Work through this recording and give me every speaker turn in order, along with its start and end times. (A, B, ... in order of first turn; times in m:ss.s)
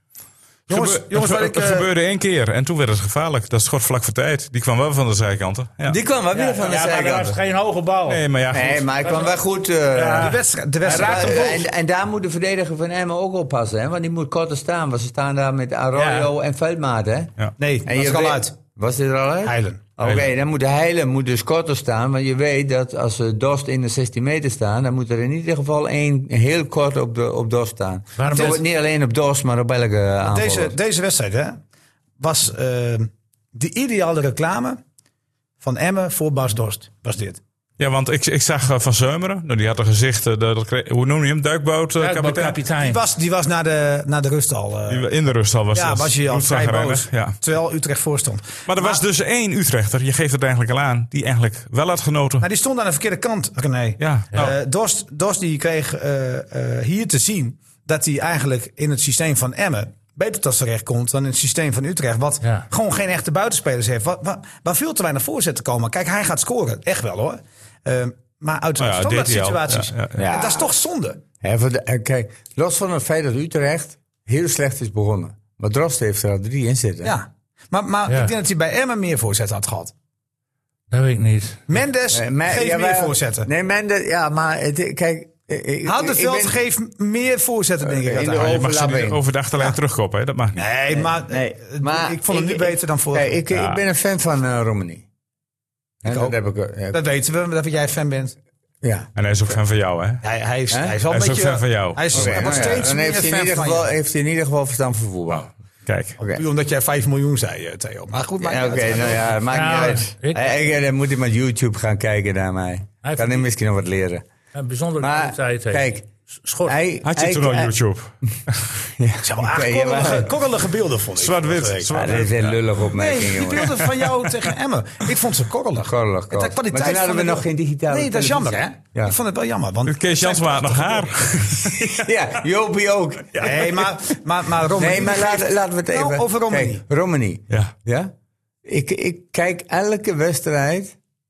0:00.7-0:06.0 A
0:00.7-0:01.9 B
0:05.8-0:07.4 C
0:06.3-0:08.2 D
0:08.0-0:08.8 A
0:08.5-0:17.3 C
0:09.0-0:09.3 D
0:09.9-0:11.6 D
0:10.2-0:11.7 B
0:15.9-0:16.3 D
0:17.6-0:18.5 B
0:17.8-0:30.8 C
0:19.4-0:19.8 B
0:28.2-0:28.6 D
0:28.3-0:28.6 B
0:30.3-0:31.6 B
0:32.2-0:34.8 B
0:35.6-0:37.4 B
0:37.8-0:42.6 A
0:42.0-0:43.0 D
0:42.8-0:45.1 B
0:44.9-0:47.4 A
0:45.7-0:49.0 B
0:48.6-0:52.4 A
0:52.4-1:11.2 B
0:54.0-0:54.5 A
1:08.8-1:10.2 A
1:10.2-1:10.7 C
1:11.4-1:17.2 C
1:17.0-1:19.9 B
1:18.1-1:18.3 D
1:20.9-1:21.6 D
1:21.7-1:23.5 B
1:22.1-1:26.6 C
1:25.8-1:28.6 B
1:27.8-1:29.2 C
1:28.4-1:30.6 A
1:30.6-1:33.4 B
1:30.9-1:35.0 C
1:33.5-1:33.8 A
1:36.0-1:37.0 C
1:36.0-1:36.3 B
1:36.9-1:38.3 B
1:38.8-1:39.1 C
1:39.2-1:40.2 A
1:40.2-1:43.9 B
1:40.7-1:41.0 C
1:41.1-1:42.8 A
1:42.1-1:45.5 C
1:45.3-1:46.2 A
1:46.2-1:49.4 B
1:48.4-1:54.2 C
1:49.5-1:50.5 D
1:53.0-1:53.4 D
1:54.5-1:55.9 D
1:55.0-1:56.1 C
1:56.4-1:56.8 D
1:56.6-1:57.7 C
1:57.0-1:58.7 A
1:58.8-2:00.3 C
1:59.2-2:02.0 B
2:01.2-2:02.6 A
2:01.9-2:03.9 C
2:02.9-2:11.2 B
2:05.8-2:09.2 C
2:09.9-2:12.1 A
2:11.6-2:14.0 C
2:13.4-2:16.8 B
2:14.7-2:18.1 C
2:18.6-2:21.0 C